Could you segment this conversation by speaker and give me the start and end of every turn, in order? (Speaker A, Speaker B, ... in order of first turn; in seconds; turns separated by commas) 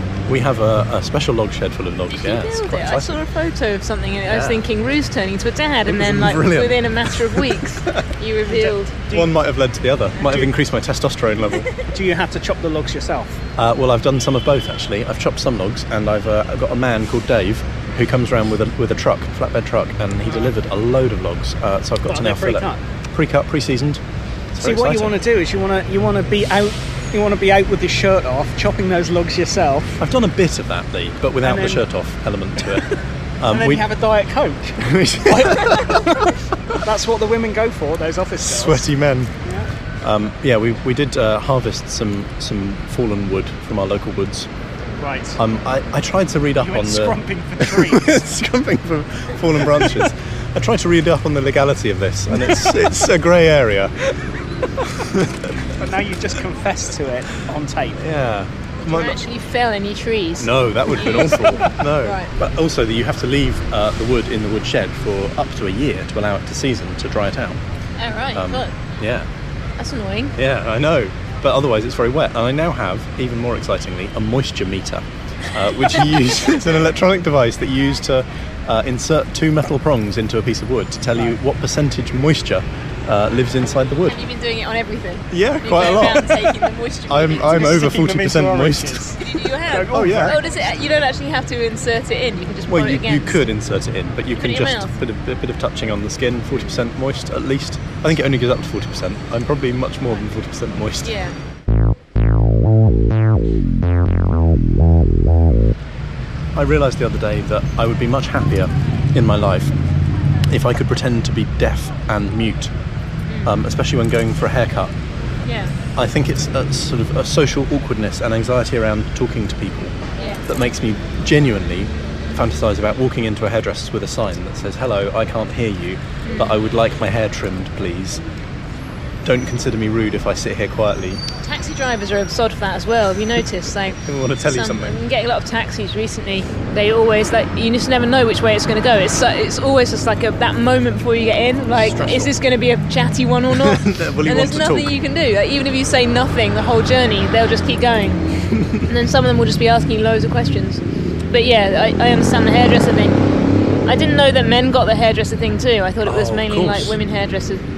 Speaker A: 0.3-3.2, Speaker B: 2.1-9.0, Speaker A: 4.3-4.7, Speaker A: 5.9-8.1, Speaker C: 8.5-9.3, Speaker A: 9.1-11.7, Speaker C: 10.2-10.5, Speaker C: 11.9-13.4, Speaker A: 13.6-24.0, Speaker C: 22.1-22.8, Speaker A: 24.5-25.2, Speaker C: 24.6-30.0, Speaker A: 30.0-32.9, Speaker C: 31.4-31.9, Speaker A: 33.4-33.9, Speaker C: 33.5-36.1, Speaker A: 34.8-36.3, Speaker C: 36.8-38.8, Speaker A: 38.4-39.3, Speaker A: 40.0-44.5, Speaker C: 45.0-45.4, Speaker A: 45.4-54.0, Speaker C: 46.6-48.2, Speaker A: 54.8-55.5, Speaker C: 55.8-58.1, Speaker A: 58.0-59.2, Speaker B: 58.9-62.3, Speaker A: 60.4-67.6, Speaker B: 68.0-68.7, Speaker A: 68.3-69.3, Speaker B: 69.8-70.4, Speaker A: 70.4-84.2, Speaker B: 84.0-87.8, Speaker A: 85.3-86.5, Speaker A: 87.1-89.1, Speaker C: 87.5-90.4, Speaker B: 89.2-93.4, Speaker A: 89.9-90.4, Speaker A: 92.7-101.1, Speaker B: 94.3-94.9, Speaker B: 96.5-96.8, Speaker B: 101.0-101.4, Speaker A: 106.5-109.7, Speaker A: 110.5-112.7, Speaker B: 113.3-113.6, Speaker A: 113.5-114.9, Speaker B: 115.5-115.8, Speaker A: 116.0-128.2, Speaker B: 120.2-120.5, Speaker B: 126.2-126.6, Speaker A: 129.2-131.2, Speaker B: 131.4-148.2, Speaker A: 134.0-135.0, Speaker A: 141.7-142.3, Speaker A: 143.5-145.0, Speaker A: 148.5-148.8, Speaker B: 148.8-153.2, Speaker B: 153.9-157.6, Speaker A: 156.0-157.0